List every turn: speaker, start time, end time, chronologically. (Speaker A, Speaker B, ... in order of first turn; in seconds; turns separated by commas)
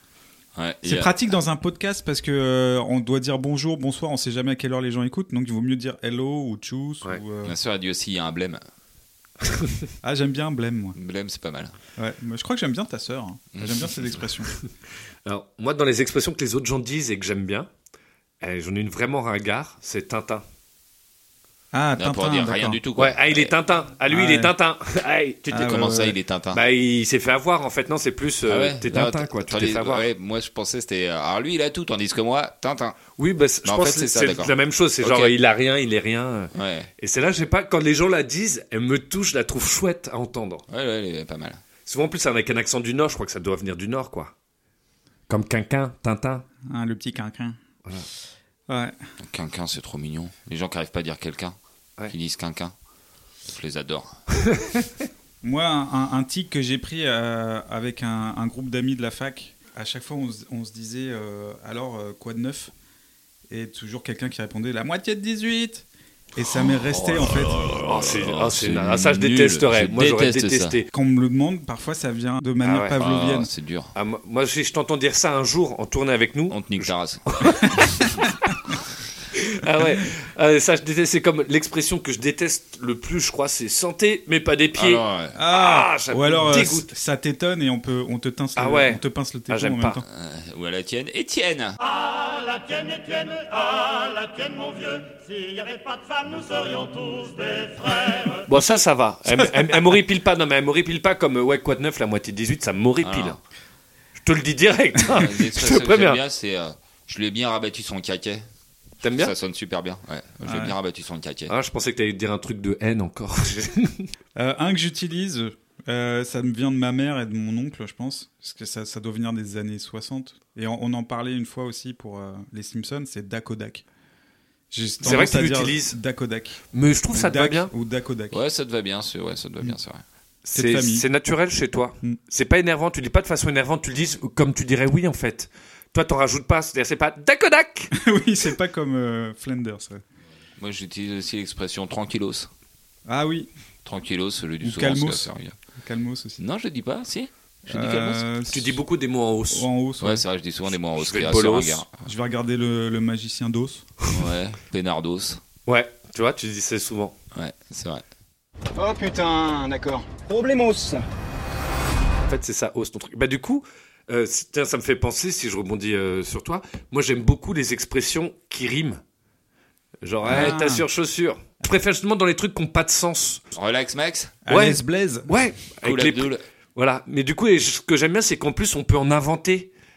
Speaker A: 0.6-1.1, Speaker B: 0.8-7.6, Speaker A: 7.4-8.6, Speaker B: 10.0-11.0, Speaker A: 11.0-11.7, Speaker B: 12.0-14.5, Speaker A: 13.6-14.3, Speaker C: 15.3-17.7, Speaker C: 18.4-20.4, Speaker B: 21.7-22.8, Speaker A: 22.0-23.5, Speaker C: 23.0-25.6, Speaker B: 24.1-24.5, Speaker B: 25.5-26.2, Speaker A: 25.5-26.6, Speaker C: 26.5-30.1, Speaker A: 28.5-33.0, Speaker C: 33.2-40.6, Speaker A: 33.6-35.4, Speaker A: 36.5-36.9, Speaker A: 40.7-41.6, Speaker C: 41.9-44.3, Speaker C: 45.3-46.5, Speaker B: 46.6-47.6, Speaker B: 48.7-49.0, Speaker A: 49.2-51.6, Speaker A: 52.1-52.7, Speaker A: 53.5-54.2, Speaker C: 54.5-54.9, Speaker B: 55.4-62.7, Speaker B: 63.5-67.6, Speaker C: 67.5-70.9, Speaker A: 67.6-70.8, Speaker B: 70.9-73.5, Speaker C: 72.6-73.0, Speaker A: 73.0-73.9, Speaker C: 74.0-78.1, Speaker A: 76.5-77.2, Speaker A: 77.7-78.0, Speaker C: 79.4-86.9, Speaker A: 84.8-85.4, Speaker B: 85.3-90.1, Speaker C: 88.6-90.0, Speaker A: 90.1-91.8, Speaker D: 93.0-93.4, Speaker D: 94.2-94.8, Speaker D: 96.1-97.7, Speaker C: 98.5-103.4, Speaker A: 103.0-103.4, Speaker C: 104.2-106.2, Speaker A: 105.1-108.5, Speaker C: 109.0-109.3, Speaker A: 109.2-111.5, Speaker B: 110.4-110.8, Speaker C: 111.5-114.1, Speaker B: 114.4-123.8, Speaker B: 124.7-126.6, Speaker C: 125.0-126.0, Speaker C: 126.7-127.7, Speaker B: 127.1-128.4, Speaker A: 128.3-130.0, Speaker C: 130.5-137.9, Speaker B: 130.5-131.1, Speaker B: 137.9-140.0, Speaker A: 140.6-142.5, Speaker B: 143.1-143.5, Speaker A: 143.8-145.6, Speaker B: 144.6-146.4, Speaker A: 146.4-148.2, Speaker B: 147.7-148.8, Speaker C: 148.5-149.7, Speaker B: 149.5-150.2, Speaker A: 150.0-152.0, Speaker C: 151.0-151.8, Speaker B: 152.0-153.9, Speaker A: 154.1-155.4, Speaker C: 155.7-157.2, Speaker A: 157.3-158.0, Speaker E: 158.8-161.0, Speaker C: 162.3-169.0, Speaker C: 170.0-173.4, Speaker B: 170.3-170.8, Speaker A: 173.5-174.4, Speaker B: 174.4-175.4, Speaker C: 174.5-179.7, Speaker A: 175.8-176.4